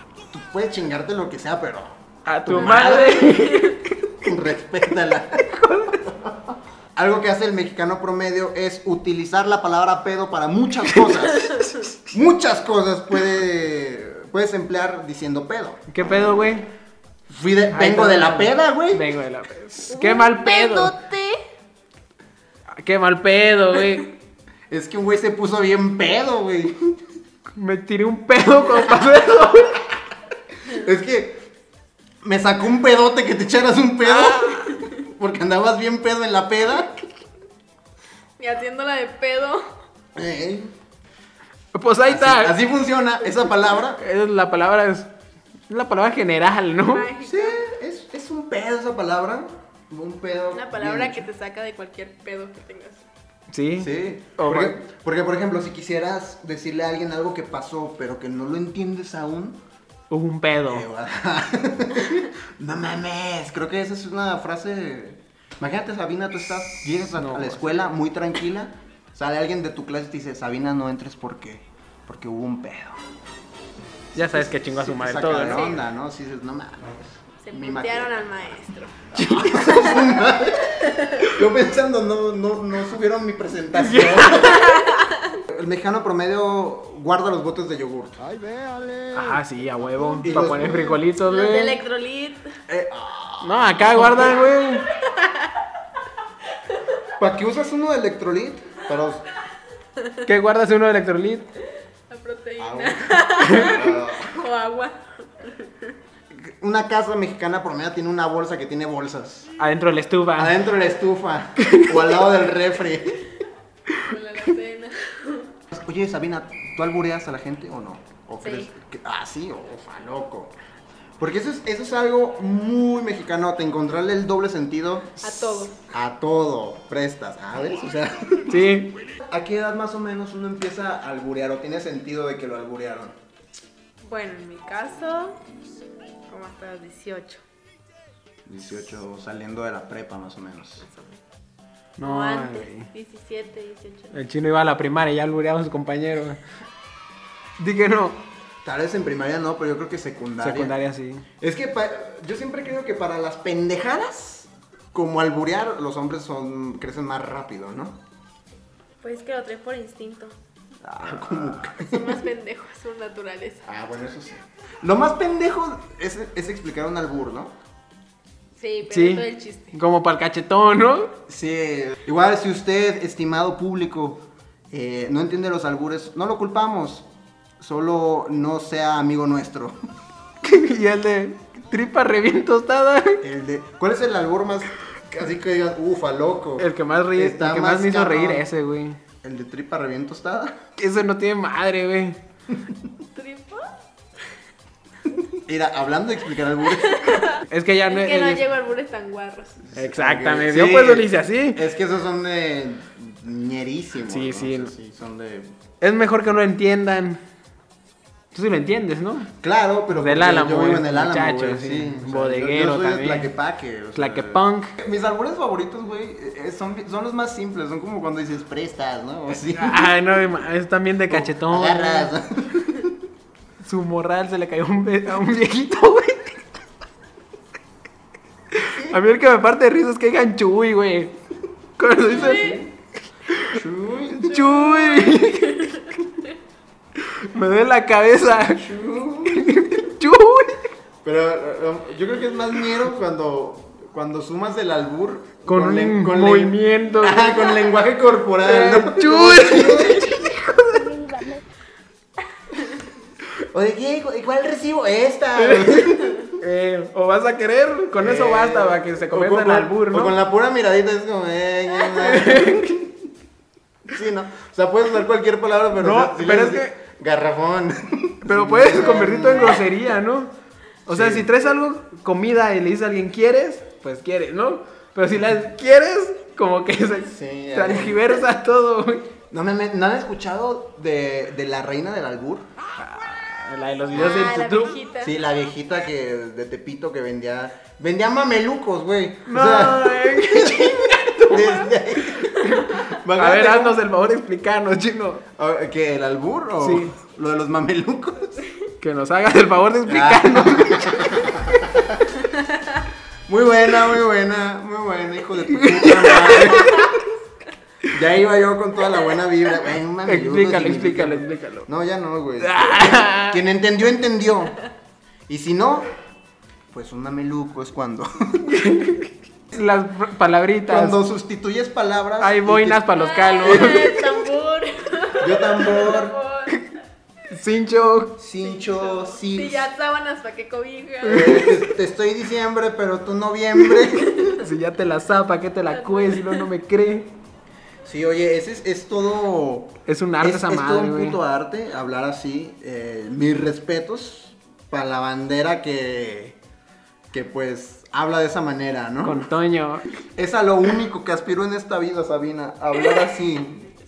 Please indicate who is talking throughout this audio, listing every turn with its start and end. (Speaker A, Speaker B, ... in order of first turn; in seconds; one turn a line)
Speaker A: 0.3-3.6
Speaker B: 2.2-3.9
Speaker A: 4.2-16.6
Speaker B: 5.5-6.1
Speaker B: 15.9-16.7
Speaker A: 17.3-19.0
Speaker B: 17.7-20.9
Speaker C: 19.9-21.4
Speaker B: 22.7-24.1
Speaker A: 24.7-27.0
Speaker B: 27.6-29.8
Speaker A: 28.8-29.2
Speaker A: 30.6-31.5
Speaker A: 32.2-37.1
Speaker B: 34.0-34.8
Speaker C: 38.4-39.7
Speaker A: 40.1-40.7
Speaker B: 41.7-42.5
Speaker A: 42.1-44.0
Speaker B: 44.0-45.1
Speaker B: 45.7-47.1
Speaker C: 46.9-47.6
Speaker A: 47.2-51.3
Speaker C: 50.5-53.0
Speaker B: 53.5-54.8
Speaker A: 53.8-59.6
Speaker B: 60.1-60.9
Speaker A: 60.7-73.1
Speaker B: 67.2-67.8
Speaker B: 74.1-75.8
Speaker A: 74.1-78.2
Speaker C: 77.4-79.1
Speaker A: 79.1-84.8
Speaker B: 79.2-79.9
Speaker C: 80.8-81.2
Speaker B: 83.8-84.8
Speaker C: 84.4-85.4
Speaker A: 85.5-88.2
Speaker B: 89.1-91.8
Speaker A: 90.2-91.0
Speaker C: 91.2-92.5
Speaker A: 92.7-94.3
Speaker B: 93.4-94.8
Speaker C: 94.9-95.5
Speaker A: 97.2-99.2
Speaker B: 100.2-101.5
Speaker C: 102.1-105.9
Speaker A: 102.6-104.4
Speaker B: 103.4-103.8
Speaker A: 106.3-109.5
Speaker B: 109.6-110.6
Speaker A: 110.3-113.2
Speaker B: 111.6-111.9
Speaker C: 114.0-115.5
Speaker A: 115.7-120.5
Speaker C: 118.4-118.7
Speaker A: 121.2-125.2
Speaker C: 125.2-125.8
Speaker A: 125.9-133.2
Speaker B: 128.5-129.0
Speaker C: 134.0-135.4
Speaker C: 136.3-137.4
Speaker A: 138.4-140.8
Speaker C: 140.8-141.2
Speaker B: 142.0-142.9
Speaker C: 142.0-144.1
Speaker B: 144.1-146.4
Speaker B: 147.6-148.2
Speaker A: 148.6-150.7
Speaker B: 150.4-151.2
Speaker A: 151.4-158.0
Speaker C: 159.0-160.3
Speaker A: 160.8-162.2
Speaker C: 161.8-163.6
Speaker A: 163.6-167.5
Speaker C: 168.6-169.7
Speaker B: 168.9-171.2
Speaker A: 171.3-177.1
Speaker A: 177.6-179.8
Speaker B: 180.4-183.2
Speaker A: 183.2-188.4
Speaker B: 186.6-189.0
Speaker A: 189.2-190.6
Speaker B: 190.8-192.2
Speaker C: 193.1-193.7
Speaker A: 195.3-197.3
Speaker C: 196.8-199.6
Speaker B: 197.5-198.4
Speaker A: 199.6-205.5
Speaker B: 199.7-201.6
Speaker B: 204.1-204.7
Speaker B: 205.8-207.2
Speaker B: 208.3-209.3
Speaker A: 209.4-219.9
Speaker B: 209.9-213.3
Speaker B: 213.9-214.7
Speaker B: 219.4-222.1
Speaker A: 221.1-223.0
Speaker B: 223.6-226.4
Speaker B: 228.5-231.2
Speaker B: 231.8-232.6
Speaker A: 232.1-232.7
Speaker C: 232.1-232.6
Speaker B: 233.3-233.6
Speaker A: 233.4-234.8
Speaker B: 234.2-235.9
Speaker C: 234.7-235.8
Speaker B: 237.0-238.7
Speaker A: 238.5-239.5
Speaker B: 239.3-240.7
Speaker A: 241.0-250.3
Speaker B: 245.4-247.4
Speaker B: 248.4-251.1
Speaker A: 253.5-256.3
Speaker B: 255.4-260.1
Speaker A: 258.0-262.9
Speaker B: 262.0-262.8
Speaker A: 263.9-269.6
Speaker B: 265.8-266.7
Speaker B: 268.2-270.3
Speaker B: 270.9-279.1
Speaker A: 270.9-271.3
Speaker A: 277.1-278.2
Speaker A: 279.3-282.5
Speaker B: 282.8-284.8
Speaker A: 283.9-284.2
Speaker C: 283.9-285.2
Speaker A: 285.0-293.8
Speaker B: 289.2-295.2
Speaker A: 295.4-298.4
Speaker B: 296.6-296.9
Speaker B: 298.8-301.1
Speaker A: 299.9-302.2
Speaker A: 303.3-307.1
Speaker B: 305.5-306.9
Speaker A: 307.9-314.6
Speaker B: 310.1-311.7
Speaker B: 312.4-313.4
Speaker A: 315.3-315.9
Speaker A: 316.7-318.5
Speaker B: 318.4-321.0
Speaker A: 320.7-322.8
Speaker B: 322.2-324.0
Speaker C: 322.9-326.6
Speaker A: 323.4-323.9
Speaker A: 325.2-326.2
Speaker B: 327.3-328.1
Speaker A: 328.2-329.7
Speaker C: 328.4-331.6
Speaker B: 331.0-331.7
Speaker A: 331.1-334.4
Speaker B: 334.4-337.1
Speaker C: 335.7-336.4
Speaker A: 337.8-346.4
Speaker B: 339.9-341.2
Speaker A: 347.1-349.3
Speaker B: 349.0-349.9
Speaker A: 350.1-353.7